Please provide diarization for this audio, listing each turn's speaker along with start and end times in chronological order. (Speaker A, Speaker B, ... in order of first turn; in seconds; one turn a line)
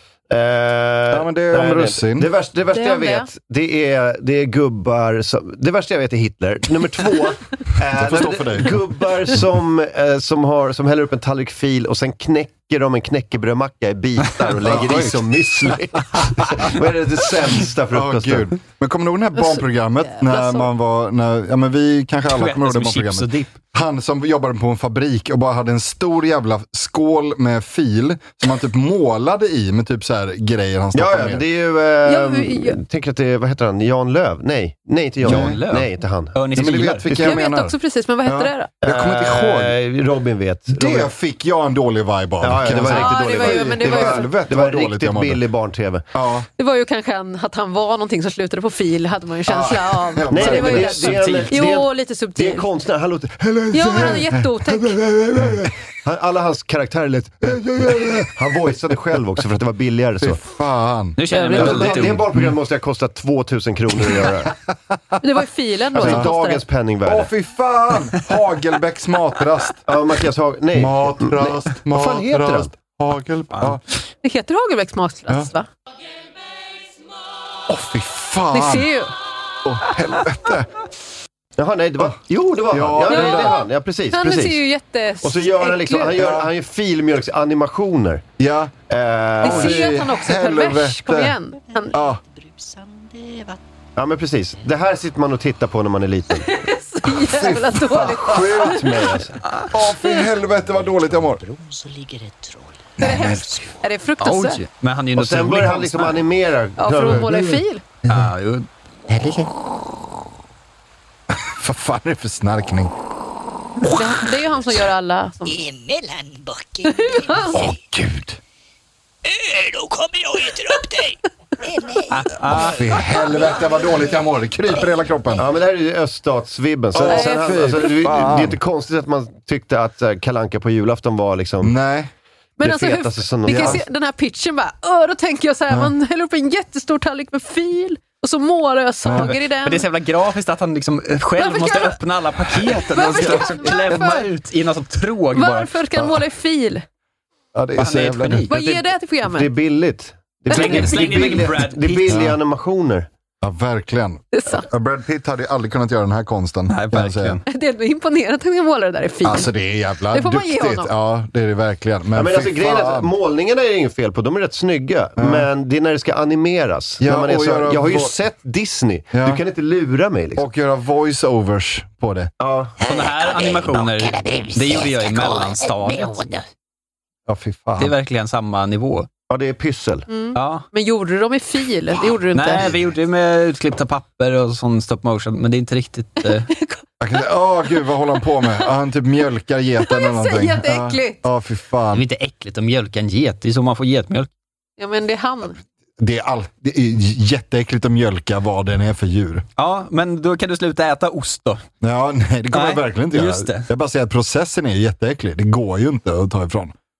Speaker A: 0.3-18.5
Speaker B: 1.1-2.3
Speaker C: 2.7-3.3
Speaker B: 7.9-8.8
Speaker B: 14.6-15.7
Speaker B: 17.9-31.4
Speaker C: 19.4-20.7
Speaker D: 22.3-23.5
Speaker A: 30.9-37.4
Speaker C: 32.0-32.8
Speaker B: 35.2-35.6
Speaker D: 35.2-37.1
Speaker B: 36.5-39.8
Speaker C: 37.1-38.7
Speaker A: 38.8-41.1
Speaker B: 40.7-45.4
Speaker A: 42.4-46.0
Speaker C: 42.8-44.4
Speaker B: 46.1-46.5
Speaker C: 46.6-52.6
Speaker B: 49.5-51.4
Speaker A: 50.3-60.4
Speaker D: 51.0-51.5
Speaker C: 53.7-55.0
Speaker B: 57.8-58.2
Speaker B: 60.2-62.6
Speaker D: 61.2-62.3
Speaker A: 61.3-64.5
Speaker C: 65.2-66.6
Speaker A: 65.9-67.3
Speaker B: 65.9-66.3
Speaker B: 67.0-69.8
Speaker A: 69.9-72.7
Speaker B: 70.7-73.8
Speaker C: 74.2-75.7
Speaker B: 77.7-78.9
Speaker C: 78.5-79.1
Speaker B: 79.6-80.7
Speaker A: 81.6-84.6
Speaker B: 82.7-83.6
Speaker C: 83.1-86.2
Speaker A: 85.2-88.2
Speaker B: 86.1-86.5
Speaker B: 88.4-88.7
Speaker A: 88.9-89.9
Speaker B: 89.4-91.4
Speaker C: 89.4-92.0
Speaker E: 91.7-93.6
Speaker B: 91.9-92.2
Speaker A: 94.0-96.5
Speaker C: 96.5-99.0
Speaker B: 97.2-101.4
Speaker A: 98.3-99.3
Speaker D: 99.4-99.7
Speaker E: 100.3-103.0
Speaker B: 103.0-103.6
Speaker C: 103.0-104.6
Speaker D: 104.2-106.2
Speaker A: 105.1-107.6
Speaker C: 106.8-107.8
Speaker D: 108.0-108.7
Speaker B: 109.1-109.5
Speaker B: 111.3-112.9
Speaker C: 113.8-115.6
Speaker E: 115.5-117.8
Speaker C: 117.0-117.7
Speaker B: 117.5-118.4
Speaker E: 119.2-124.2
Speaker D: 122.1-123.0
Speaker B: 122.5-125.5
Speaker A: 125.3-131.7
Speaker B: 126.9-128.6
Speaker C: 127.0-127.8
Speaker B: 131.6-132.1
Speaker C: 132.6-139.8
Speaker A: 132.6-133.8
Speaker B: 133.4-133.8
Speaker B: 139.0-139.3
Speaker D: 139.1-145.8
Speaker C: 141.4-142.0
Speaker C: 142.7-144.2
Speaker B: 143.1-144.0
Speaker C: 145.3-146.8
Speaker B: 147.5-148.5
Speaker D: 147.8-148.8
Speaker C: 148.5-149.5
Speaker A: 149.2-153.1
Speaker D: 150.5-152.3
Speaker C: 150.5-151.5
Speaker B: 152.1-152.4
Speaker B: 153.4-157.4
Speaker C: 154.3-154.7
Speaker D: 156.7-157.4
Speaker C: 157.5-159.5
Speaker B: 159.2-163.1
Speaker C: 160.1-160.9
Speaker A: 162.1-170.4
Speaker B: 165.2-165.5
Speaker B: 167.0-168.1
Speaker B: 169.1-169.4
Speaker B: 170.4-172.3
Speaker A: 172.4-172.7
Speaker E: 172.8-176.4
Speaker D: 172.8-176.3
Speaker B: 177.3-177.9
Speaker D: 177.8-179.1
Speaker A: 179.3-180.1
Speaker C: 180.1-182.7
Speaker D: 180.3-180.7
Speaker D: 182.3-186.5
Speaker C: 186.4-186.8
Speaker B: 187.0-192.0
Speaker C: 189.8-191.2
Speaker D: 191.9-194.3
Speaker C: 194.8-195.6
Speaker B: 196.0-199.4
Speaker D: 199.6-201.6
Speaker B: 201.8-206.7
Speaker D: 202.5-203.7